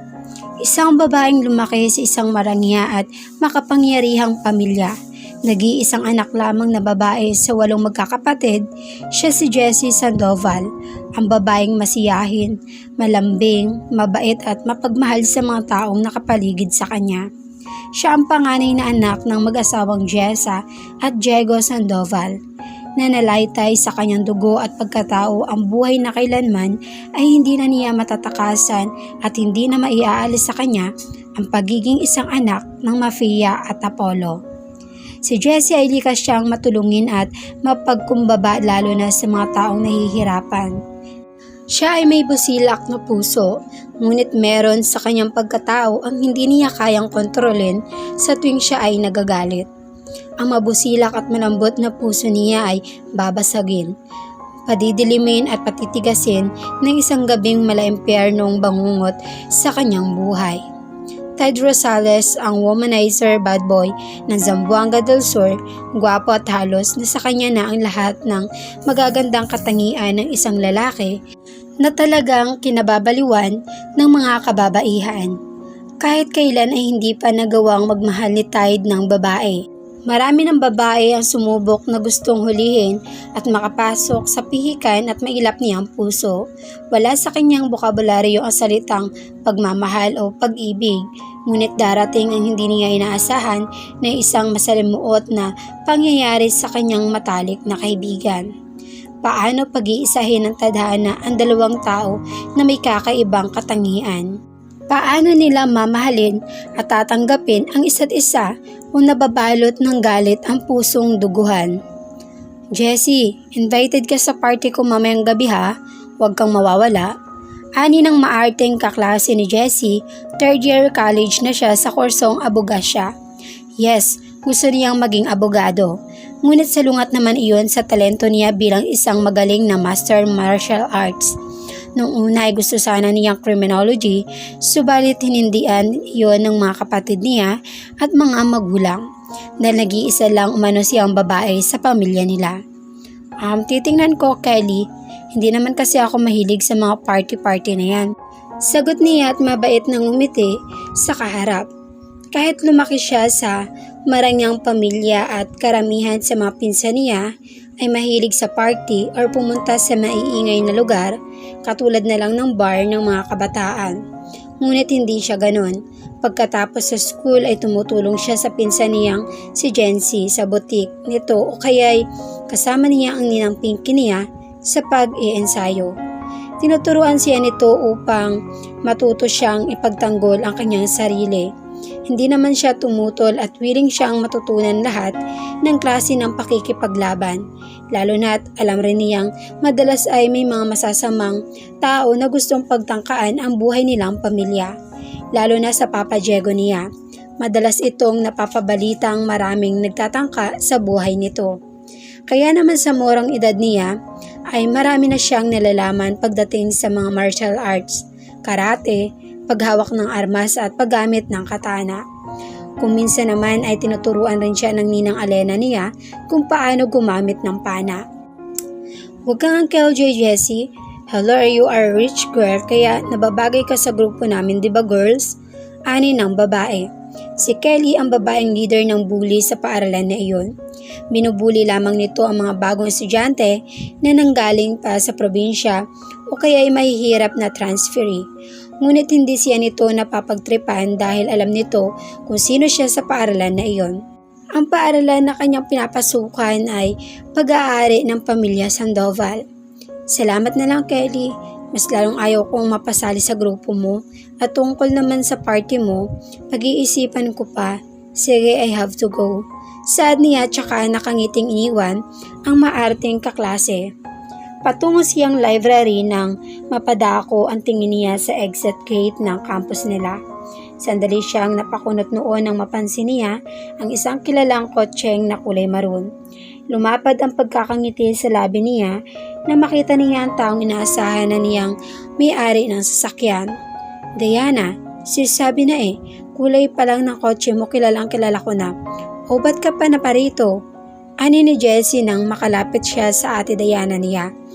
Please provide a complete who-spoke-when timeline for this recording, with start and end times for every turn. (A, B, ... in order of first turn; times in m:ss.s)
0:00.6-0:04.9 A
0:05.5-0:08.6 A
0:09.2-0:10.7 A
0:11.2-0:17.3 A
0:18.0-0:22.4 A
0:23.0-0:34.4 A
0:35.3-0:40.8 A
0:41.8-0:49.7 A
0:50.4-0:53.9 A
0:54.7-1:00.6 A
1:01.4-1:11.2 A
1:11.8-1:15.4 A
1:16.0-1:26.4 A
1:26.9-1:38.5 A
1:39.2-1:44.3 A
1:44.9-1:51.7 A
1:52.8-1:57.1 A
1:57.8-2:03.1 A
2:03.8-2:05.9 A
2:06.4-2:11.4 A
2:12.0-2:19.0 A
2:19.6-2:22.6 A
2:23.4-2:28.1 A
2:28.7-2:31.7 A
2:32.3-2:37.3 A
2:37.8-2:44.0 A
2:44.6-2:55.9 A
2:56.6-3:01.5 A
3:02.1-3:07.4 A
3:07.9-3:14.7 A
3:15.4-3:16.9 A
3:17.4-3:21.5 A
3:22.3-3:23.9 A
3:24.5-3:32.0 A
3:32.8-3:38.0 A
3:39.3-3:45.4 A
3:45.9-3:46.9 A
3:47.4-3:50.5 A
3:51.1-3:58.2 A
3:58.8-4:04.0 A
4:04.6-4:09.4 A
4:10.1-4:19.4 A
4:19.9-4:23.8 A
4:24.6-4:30.2 A
4:30.8-4:36.1 A
4:36.7-4:39.0 A
4:39.5-4:43.5 A
4:44.2-4:48.7 A
4:49.3-4:50.5 A
4:51.2-4:54.3 A